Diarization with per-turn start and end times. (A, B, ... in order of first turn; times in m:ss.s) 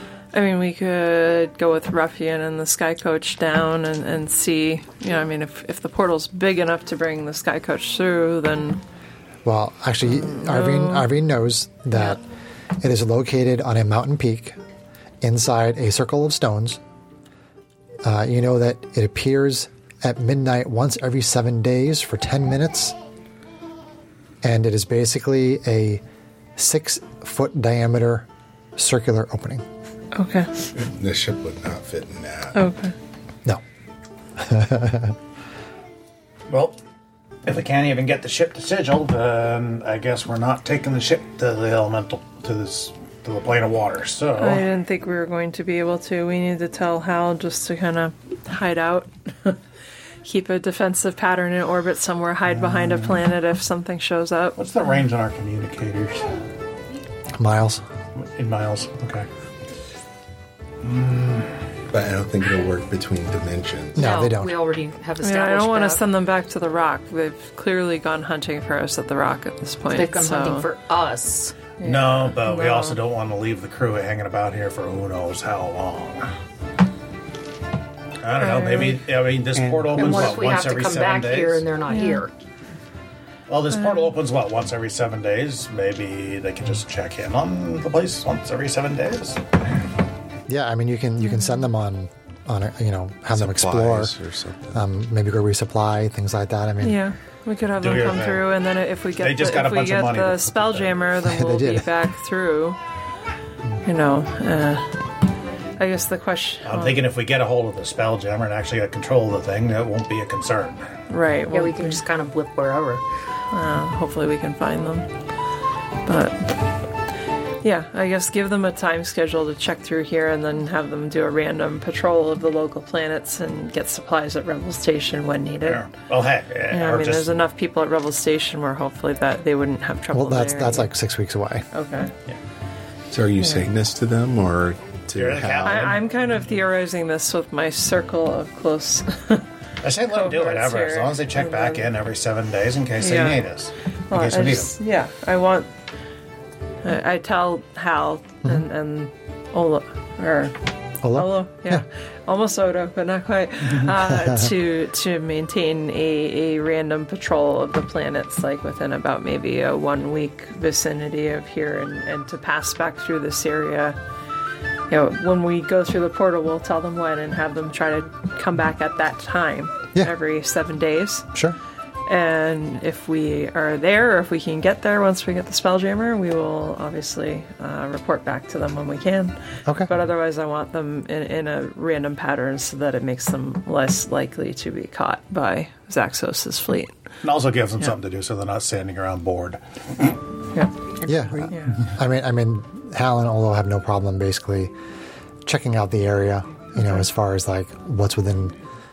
0:00.3-0:08.8 A
0:09.4-0:12.2 B
0:10.1-0:11.1 A
0:12.8-0:14.6 B
0:15.2-0:16.8 B
0:18.0-0:23.0 B
0:24.4-0:26.0 B
0:26.6-0:29.6 B
0:30.1-0:30.5 A
0:30.7-0:32.6 C
0:32.5-0:32.9 A
0:34.4-0:35.2 B
0:36.5-0:36.8 D
0:37.4-0:44.6 D
0:44.4-0:49.6 A
0:50.2-0:54.6 A
0:52.6-0:53.2 D
0:54.6-0:56.3 D
0:57.4-0:57.8 B
0:58.1-0:59.3 D
1:00.8-1:01.6 D
1:01.9-1:04.2 C
1:03.9-1:04.6 B
1:04.0-1:06.0 E
1:05.2-1:10.7 A
1:09.9-1:11.6 E
1:11.8-1:13.0 A
1:11.8-1:16.3 D
1:18.2-1:21.6 D
1:18.4-1:19.0 A
1:19.5-1:20.4 C
1:20.0-1:22.3 E
1:21.9-1:22.2 A
1:23.5-1:29.4 D
1:30.5-1:34.1 B
1:31.3-1:31.6 A
1:33.3-1:34.7 C
1:34.7-1:37.0 B
1:36.8-1:42.8 A
1:37.8-1:38.5 D
1:39.2-1:40.9 D
1:41.2-1:41.9 B
1:43.8-1:44.9 A
1:45.8-1:47.0 A
1:46.6-1:50.9 D
1:51.1-1:52.0 A
1:51.5-1:53.0 E
1:53.5-1:55.1 A
1:56.0-1:56.6 A
1:57.6-2:05.9 A
2:05.6-2:07.3 D
2:06.7-2:10.9 A
2:10.1-2:11.6 B
2:11.7-2:12.1 A
2:13.1-2:16.0 C
2:13.4-2:13.7 A
2:15.1-2:16.0 D
2:15.6-2:19.4 A
2:19.8-2:24.7 D
2:20.1-2:21.9 A
2:23.0-2:23.4 A
2:24.1-2:25.7 A
2:26.8-2:30.6 A
2:31.0-2:31.8 B
2:31.1-2:44.0 A
2:34.0-2:34.5 B
2:44.9-2:51.3 A
2:52.0-3:06.9 A
2:59.6-2:59.9 B
3:07.2-3:10.1 D
3:11.0-3:11.5 E
3:11.0-3:14.7 B
3:11.5-3:11.8 A
3:15.4-3:18.5 B